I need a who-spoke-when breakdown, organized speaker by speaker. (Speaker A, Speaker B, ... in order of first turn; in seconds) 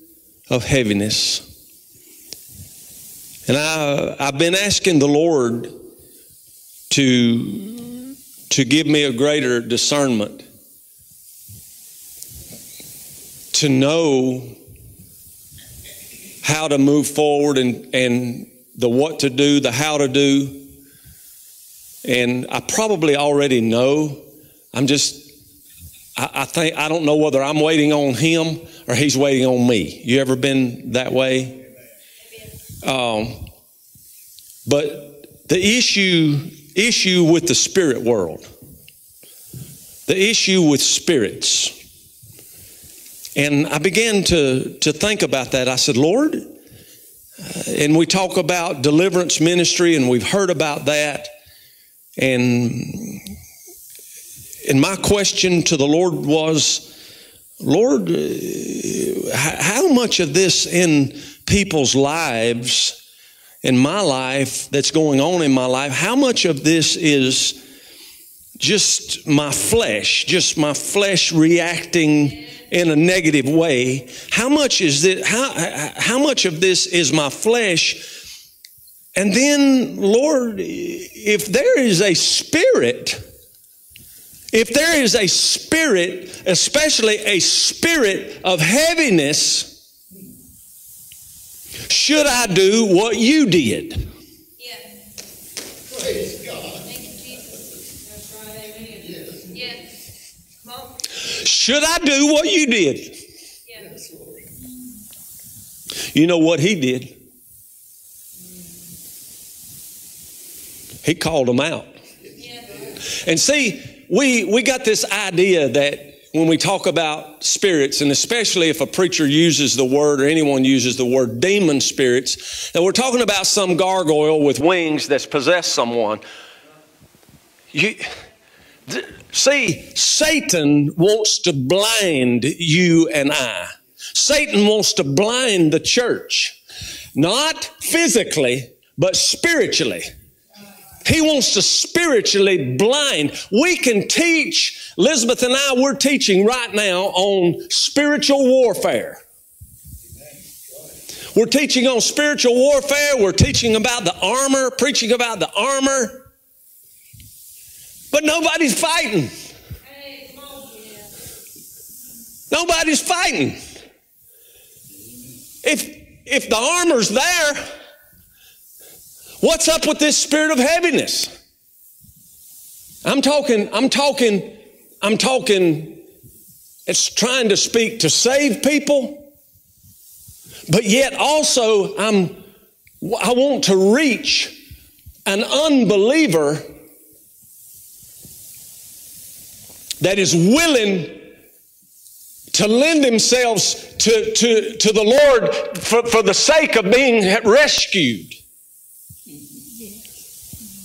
Speaker A: 0.5-1.4, 3.5-5.7, 6.9-8.0, 8.5-10.4, 13.5-14.6, 16.4-20.7, 22.0-25.3, 26.1-31.6, 32.8-33.5, 34.6-38.5, 40.1-41.7, 43.4-46.5, 47.4-51.3, 52.2-53.3, 54.6-56.9, 57.6-63.0, 63.6-67.6, 68.6-78.1, 79.2-83.2, 84.5-89.7, 91.9-94.0, 101.2-103.2, 106.1-107.1, 111.0-111.9, 113.0-126.2, 127.7-128.1, 128.9-136.6, 137.1-140.1, 141.0-149.2, 151.3-156.2, 158.1-159.3, 162.5-163.6, 165.6-167.6, 169.4-171.3, 173.0-176.0, 176.9-179.3, 180.7-182.4, 183.0-184.6, 185.2-186.7, 190.0-191.3, 192.5-198.4
Speaker B: 94.6-94.9, 96.8-99.8, 100.6-101.0, 112.4-112.7, 159.8-161.1
Speaker C: 95.9-97.0, 99.0-99.4, 103.7-104.5